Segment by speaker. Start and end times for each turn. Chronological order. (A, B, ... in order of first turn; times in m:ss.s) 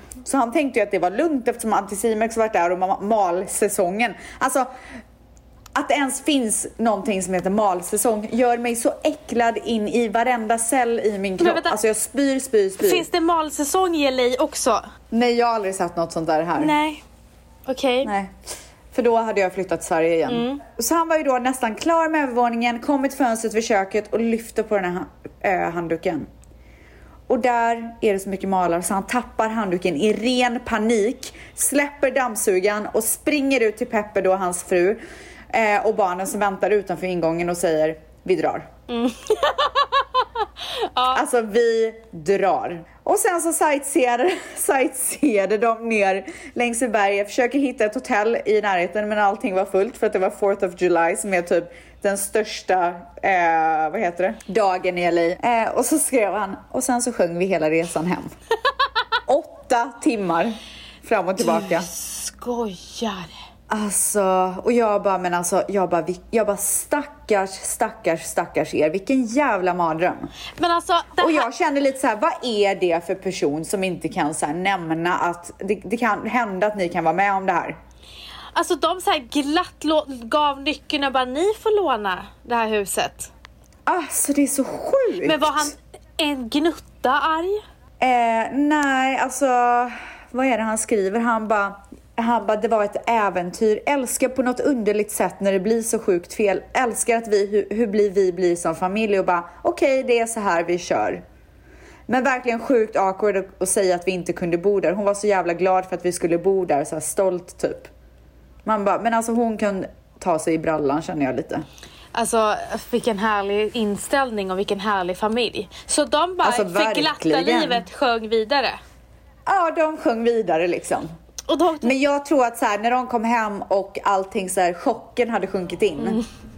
0:00.2-0:04.7 A
0:05.8-0:13.1 A
0:11.4-0:11.8 B
0:12.8-0:14.8 B
0:15.1-0:16.7 A
0:16.6-0:17.0 B
0:17.7-0:18.1 B
0:18.0-0:18.3 A
0:18.9-0:26.3 A
0:20.3-0:20.6 B
0:27.3-0:38.7 A
0:38.9-0:41.2 B
0:41.1-0:58.3 A
0:59.3-1:01.9 A
1:01.4-1:03.3 B
1:03.7-1:10.3 A
1:10.6-1:11.5 B
1:11.2-1:17.8 A
1:18.5-1:23.3 B
1:23.9-1:25.7 A
1:25.2-1:27.6 B
1:28.0-1:41.2 A
1:42.1-1:47.9 A
1:48.6-1:51.6 A
1:52.1-1:58.8 B
1:56.4-1:57.8 A
1:59.5-2:01.1 A
2:01.5-2:02.0 B
2:01.8-2:06.2 A
2:06.0-2:06.3 B